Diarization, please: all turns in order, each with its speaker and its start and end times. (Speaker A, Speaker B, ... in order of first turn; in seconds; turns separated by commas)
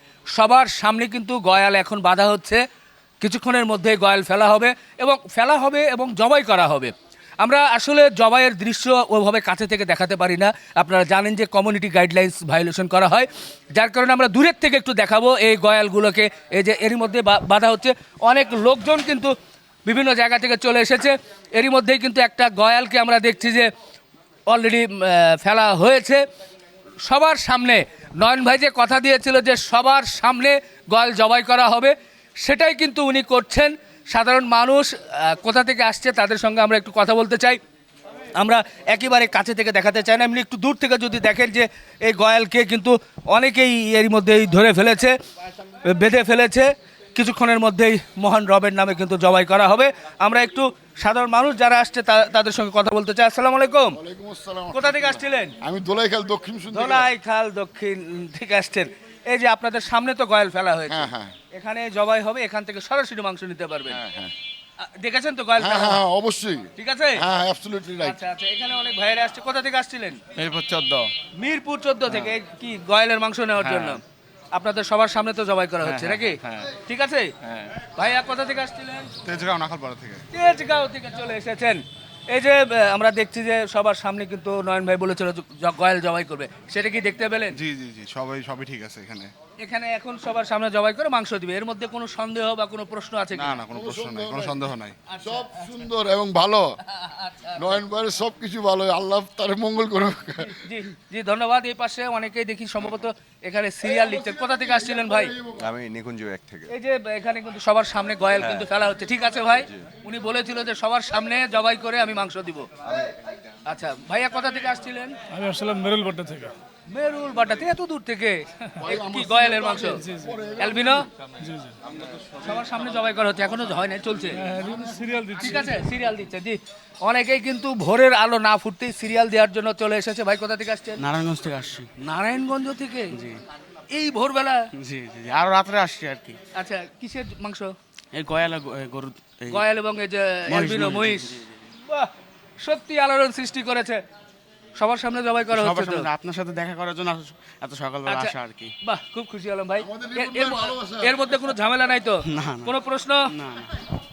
Speaker A: 0.3-2.6, Speaker A: 3.2-19.3, Speaker A: 19.9-23.7, Speaker A: 24.5-26.2, Speaker A: 27.0-37.6, Speaker A: 38.4-45.1, Speaker A: 45.9-54.0, Speaker B: 54.0-57.1, Speaker A: 54.7-55.5, Speaker A: 56.7-64.0, Speaker B: 60.9-61.3, Speaker B: 63.9-64.3, Speaker A: 65.0-66.0, Speaker B: 65.6-66.7, Speaker A: 66.8-67.2, Speaker B: 67.2-68.2, Speaker A: 68.0-70.2, Speaker C: 70.4-70.8, Speaker A: 71.4-74.0, Speaker A: 74.5-77.3, Speaker A: 78.0-79.1, Speaker C: 79.3-80.2, Speaker A: 80.3-87.6, Speaker C: 87.6-89.3, Speaker A: 89.6-93.6, Speaker C: 93.4-94.9, Speaker B: 93.7-94.7, Speaker A: 95.1-95.4, Speaker B: 95.2-96.8, Speaker A: 97.2-97.5, Speaker B: 97.6-100.5, Speaker A: 100.6-105.3, Speaker B: 103.9-105.7, Speaker A: 106.7-112.7, Speaker A: 113.7-115.2, Speaker D: 115.3-116.5, Speaker A: 116.9-120.0, Speaker B: 118.8-121.1, Speaker D: 120.0-120.3, Speaker A: 120.6-121.1, Speaker D: 121.4-121.7, Speaker A: 122.4-124.5, Speaker D: 124.3-125.9, Speaker A: 125.4-131.0, Speaker E: 131.0-131.9, Speaker A: 132.0-133.1, Speaker E: 133.1-133.4, Speaker A: 133.9-134.6, Speaker E: 134.8-136.4, Speaker A: 136.6-137.8, Speaker E: 138.1-139.7, Speaker A: 139.5-141.3, Speaker E: 140.5-141.5, Speaker A: 142.6-144.0, Speaker A: 144.8-146.1, Speaker E: 145.5-148.7, Speaker A: 148.1-153.3, Speaker B: 149.8-151.2, Speaker E: 152.2-152.8, Speaker E: 153.3-153.7